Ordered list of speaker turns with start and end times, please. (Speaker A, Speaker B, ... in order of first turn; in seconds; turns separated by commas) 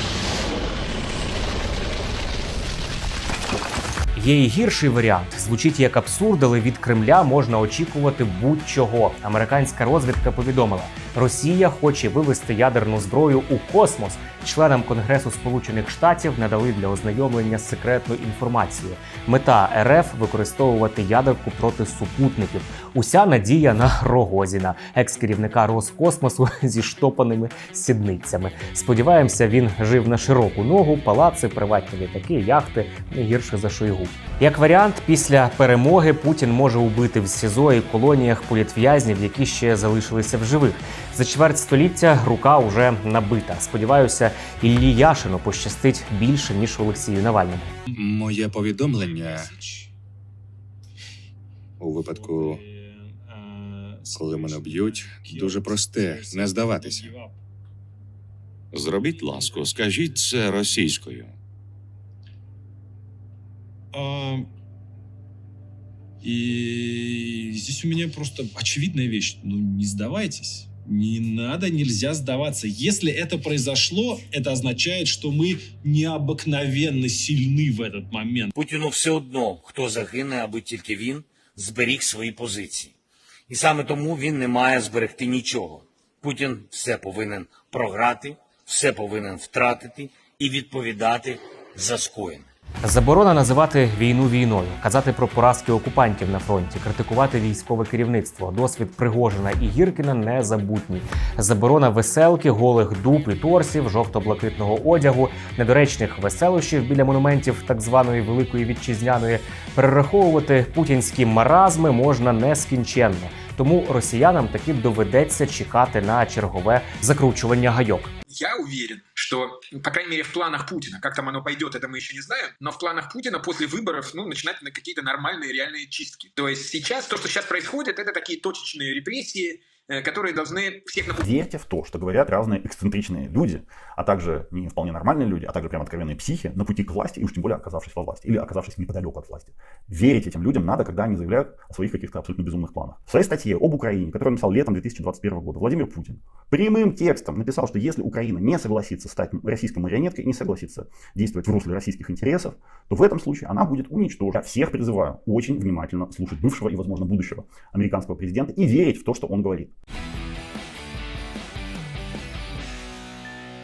Speaker A: 4.2-47.8, Speaker B: 48.0-49.5, Speaker B: 51.8-52.6, Speaker C: 52.3-54.5, Speaker B: 54.1-57.1, Speaker C: 55.3-55.6, Speaker D: 58.7-61.4, Speaker C: 63.9-64.5, Speaker C: 66.2-78.5, Speaker E: 78.5-82.9, Speaker E: 83.5-92.5, Speaker A: 92.8-118.1, Speaker F: 118.3-131.2, Speaker G: 131.2-159.7